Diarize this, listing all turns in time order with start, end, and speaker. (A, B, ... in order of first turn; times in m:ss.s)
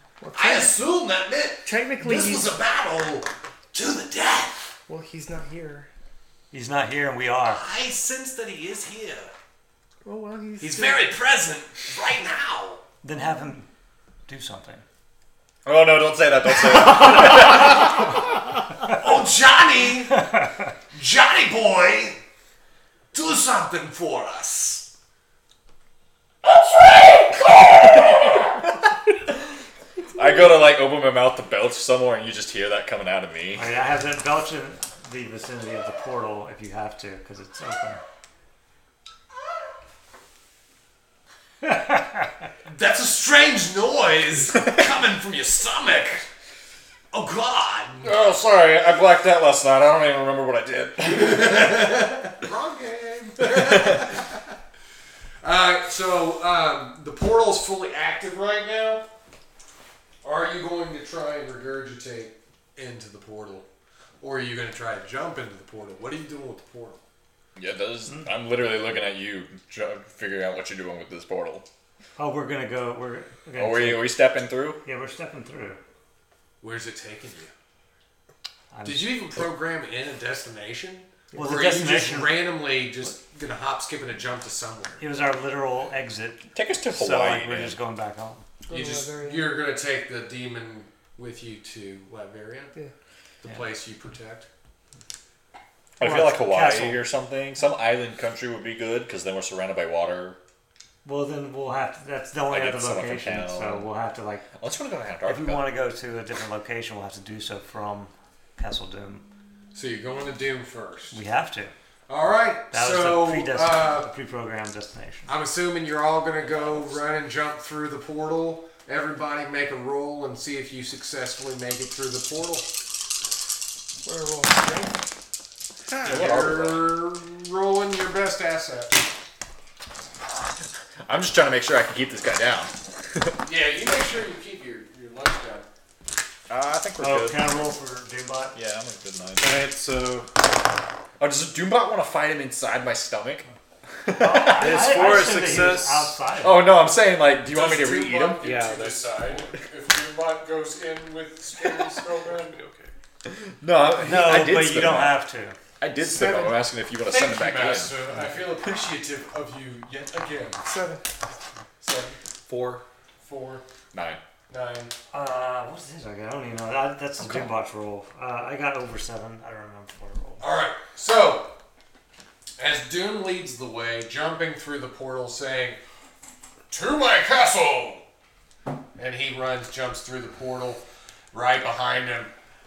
0:00.2-0:00.8 A
0:00.3-0:04.8 B
0:01.6-0:02.5 A
0:04.9-0:05.9 A
0:06.5-0:07.6 C
0:07.5-0:09.3 B
0:10.0-0:11.2 A
0:10.6-0:12.8 B
0:13.0-0:13.7 C
0:14.3-0:14.8 C
0:15.6-0:18.1 D
0:16.9-0:17.9 B
0:18.8-0:20.3 B
0:20.9-0:22.2 B
0:23.1-0:24.9 B
0:26.4-0:28.6 B
0:27.8-0:28.4 D
0:30.1-0:33.7 D
0:33.5-0:38.0 C
0:41.8-0:42.2 C
0:42.7-0:46.3 B
0:47.1-0:48.1 B
0:48.0-0:52.0 D
0:51.0-0:54.4 B
0:53.5-0:54.1 D
0:55.4-0:59.1 B
1:00.2-1:03.7 B
1:04.2-1:07.0 B
1:07.6-1:11.7 D
1:12.2-1:14.3 C
1:13.6-1:14.8 D
1:14.8-1:15.8 C
1:16.6-1:17.5 B
1:18.7-1:19.5 C
1:18.8-1:25.2 B
1:21.3-1:22.5 C
1:25.0-1:28.4 C
1:26.6-1:27.8 D
1:28.7-1:29.6 A
1:28.7-1:32.7 B
1:33.4-1:34.5 B
1:36.0-1:40.4 D
1:36.0-1:37.0 C
1:41.0-1:44.5 C
1:42.5-1:43.9 D
1:44.6-1:45.7 D
1:45.2-1:49.2 C
1:49.7-1:51.2 B
1:51.1-1:51.7 C
1:52.1-1:54.1 B
1:52.7-1:55.3 C
1:55.3-2:02.7 B
2:04.0-2:05.0 A
2:05.9-2:06.9 D
2:06.0-2:09.0 B
2:11.0-2:13.4 D
2:13.4-2:15.7 B
2:16.5-2:17.5 D
2:17.0-2:18.6 C
2:18.5-2:19.6 D
2:19.4-2:20.3 E
2:21.2-2:23.5 D
2:24.0-2:25.2 D
2:24.1-2:26.7 C
2:24.6-2:26.1 E
2:26.4-2:28.4 D
2:27.5-2:32.6 B
2:28.4-2:29.3 E
2:32.3-2:32.9 E
2:33.3-2:35.2 D
2:34.0-2:35.6 C
2:35.8-2:38.0 D
2:36.1-2:40.7 B
2:40.6-2:41.0 A
2:41.8-2:42.2 B
2:42.5-2:42.8 D
2:43.2-2:43.6 B
2:43.9-2:44.2 D
2:44.5-2:44.9 B
2:45.1-2:50.5 C
2:50.4-2:51.5 B
2:52.6-2:55.8 B
2:56.7-2:58.0 B
2:59.0-3:02.3 B